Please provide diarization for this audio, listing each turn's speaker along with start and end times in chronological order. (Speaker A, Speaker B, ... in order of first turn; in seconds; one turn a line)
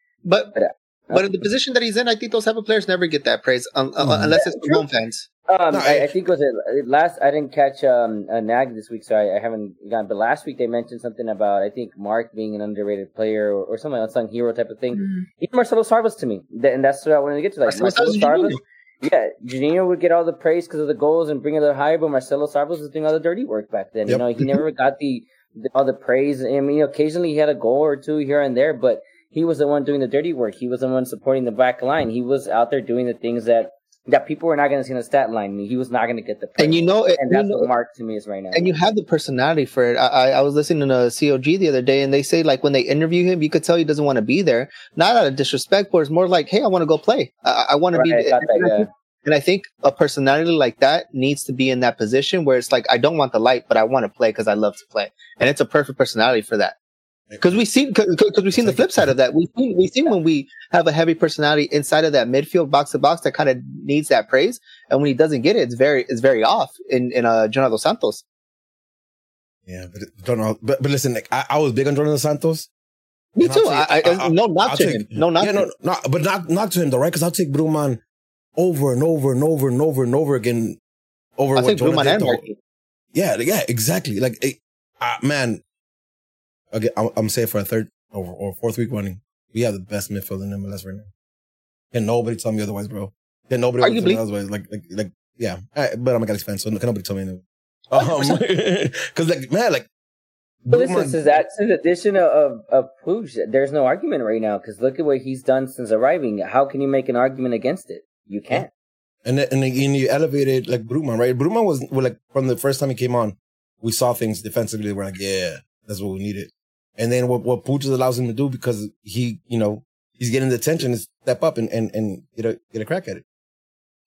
Speaker A: 0.2-0.5
Speaker B: 0.5-1.2
Speaker A: 1.1-5.3
Speaker C: 4.0-4.4
Speaker B: 5.5-38.7
Speaker C: 5.7-6.1
Speaker A: 17.7-18.6
Speaker C: 24.1-24.5
Speaker A: 36.6-37.7
Speaker A: 38.5-56.7
Speaker B: 47.9-48.9
Speaker C: 57.3-57.6
Speaker A: 57.4-68.2
Speaker C: 58.5-59.1
Speaker C: 69.7-72.7
Speaker A: 73.3-75.6
Speaker C: 73.4-78.0
Speaker C: 78.6-80.8
Speaker C: 81.4-82.4
Speaker A: 81.5-82.6
Speaker C: 83.1-85.6
Speaker C: 86.7-91.1
Speaker C: 91.9-99.9
Speaker A: 93.8-94.2
Speaker A: 97.9-98.4
Speaker C: 100.6-101.2
Speaker B: 100.7-108.7
Speaker C: 109.2-123.2